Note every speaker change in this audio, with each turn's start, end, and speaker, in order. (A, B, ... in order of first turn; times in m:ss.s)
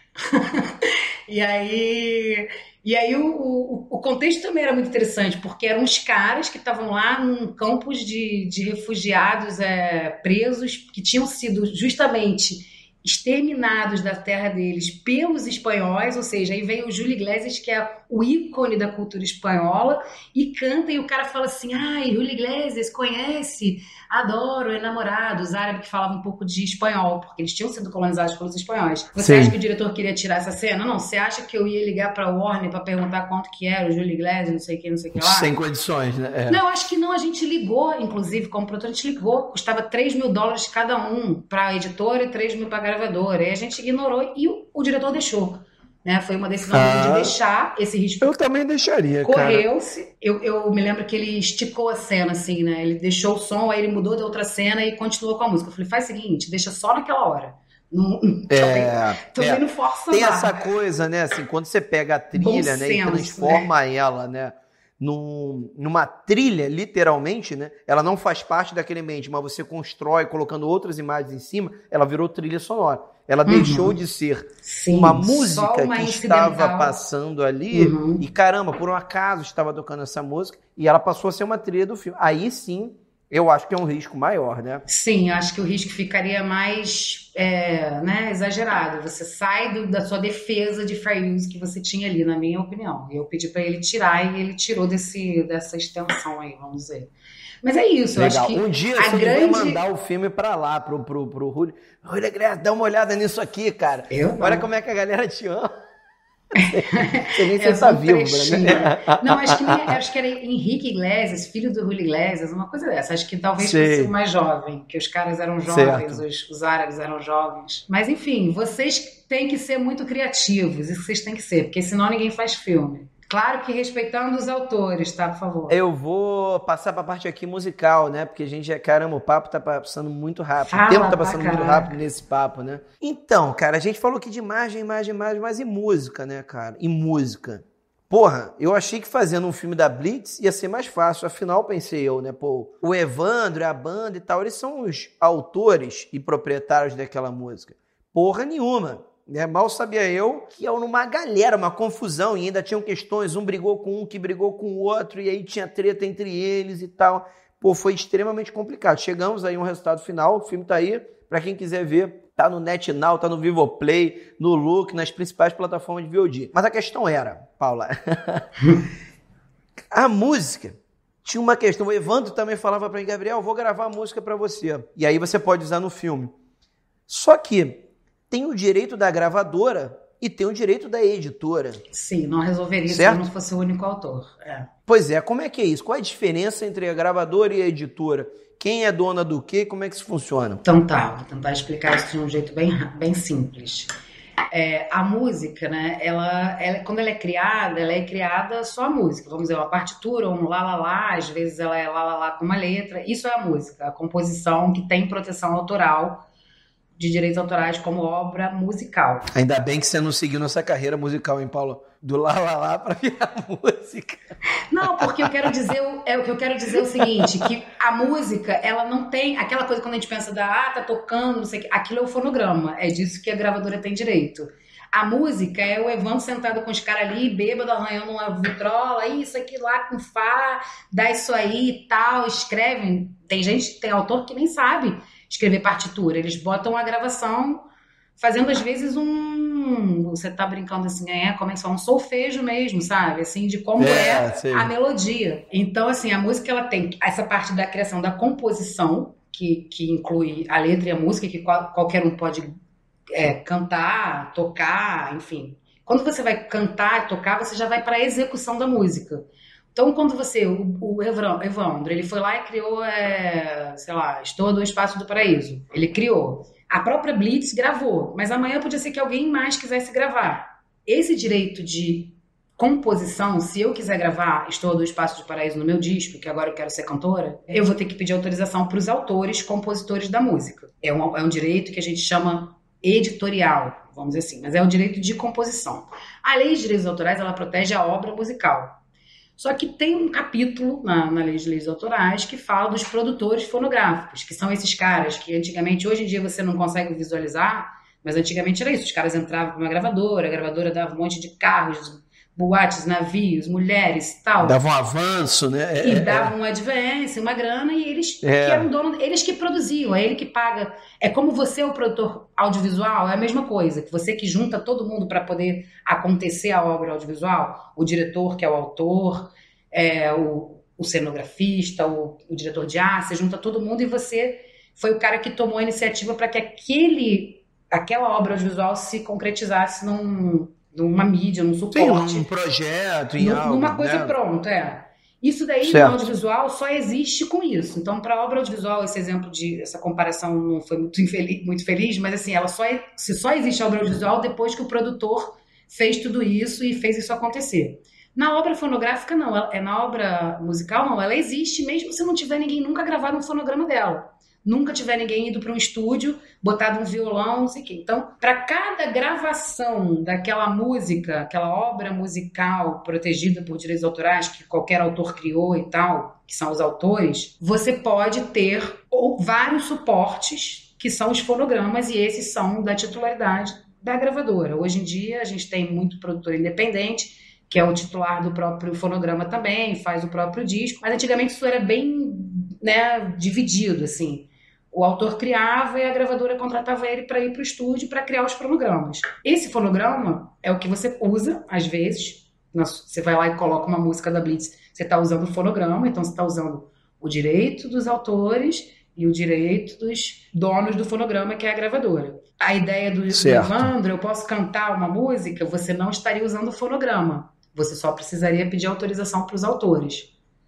0:00.2-0:35.5 A
0:29.2-0:29.6 B
0:35.2-0:36.6 B
0:36.5-0:48.4 A
0:46.7-0:47.3 B
0:48.2-0:49.6 B
0:49.2-1:00.7 A
0:58.5-1:24.8 B
1:02.3-1:03.7 A
1:13.4-1:14.0 A
1:14.6-1:17.0 A
1:17.7-1:18.2 A
1:24.8-1:37.1 A
1:37.6-1:39.8 A
1:38.2-1:45.7 B
1:44.1-1:44.6 A
1:46.6-2:05.8 A
1:46.6-1:49.9 B
1:53.6-1:54.1 B
1:55.7-1:56.2 B
2:05.7-2:48.4 B
2:10.6-2:12.0 A
2:49.9-2:50.7 B
2:51.2-2:56.3 B
2:57.1-3:01.8 B
3:01.9-3:04.7 A
3:02.9-3:03.3 B
3:04.9-3:10.6 B
3:10.6-3:13.9 A
3:14.5-3:26.2 A
3:27.0-3:29.3 A
3:29.3-3:34.2 B
3:34.7-3:57.6 A
3:34.8-3:35.5 B
3:36.7-3:37.5 B
3:58.2-4:12.5 A
4:03.8-4:04.7 B
4:13.1-4:48.8 A
4:49.4-5:04.6 A
5:04.4-5:06.3 B
5:05.8-5:32.3 A
5:08.2-5:08.7 B
5:31.7-5:34.1 B
5:33.2-6:50.1 A
5:35.6-5:36.1 B
6:43.1-6:43.7 B